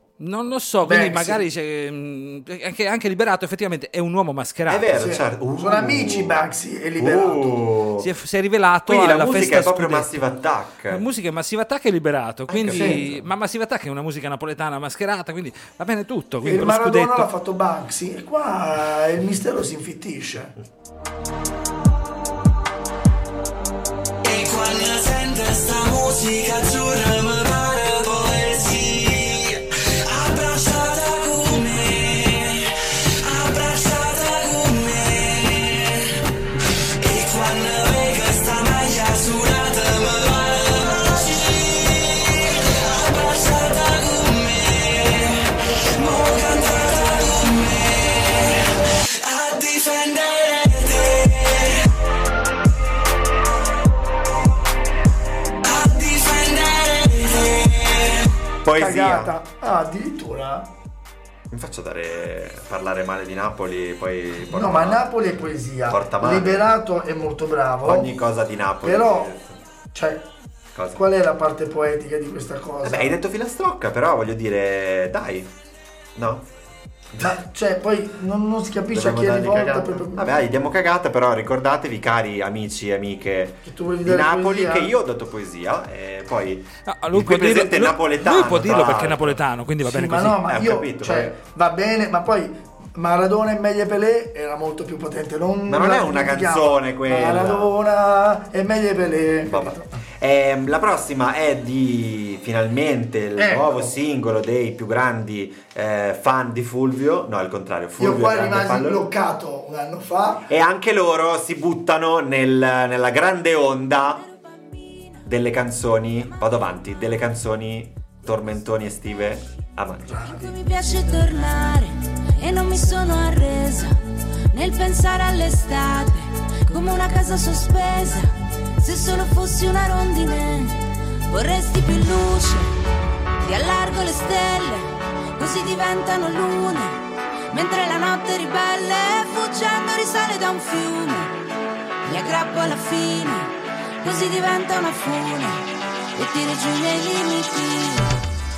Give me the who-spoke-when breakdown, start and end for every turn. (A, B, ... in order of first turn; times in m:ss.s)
0:00.2-0:05.1 A
0:00.8-0:01.4 B
0:04.7-0:08.1 C
0:05.0-0:07.6 B
0:08.0-0:10.2 A
0:08.9-0:11.0 C
0:10.9-0:17.3 A
0:12.5-0:13.3 C
0:12.7-0:13.0 B
0:16.4-0:20.5 B
0:24.2-0:36.2 D
0:37.0-0:51.8 D
0:55.6-0:58.3 D
0:58.6-0:59.3 C
0:58.8-1:00.7 B
1:01.5-1:05.1 C
1:04.5-1:08.1 B
1:05.9-1:06.7 C
1:07.8-1:09.6 C
1:08.8-1:09.3 B
1:09.9-1:10.2 B
1:10.7-1:11.0 C
1:10.9-1:13.2 B
1:12.8-1:15.5 C
1:16.1-1:16.5 C
1:17.2-1:20.3 B
1:18.9-1:29.4 C
1:23.6-1:24.9 B
1:26.8-1:30.4 A
1:29.8-1:40.0 B
1:30.4-1:31.3 C
1:35.7-1:37.7 C
1:39.4-1:49.0 C
1:43.4-1:44.0 B
1:48.0-1:50.5 B
1:50.5-1:54.2 C
1:55.2-2:00.4 C
2:00.0-2:00.6 B
2:00.5-2:04.0 E
2:04.5-2:12.7 E
2:13.4-2:21.3 E
2:22.0-2:25.6 E
2:26.1-2:28.1 E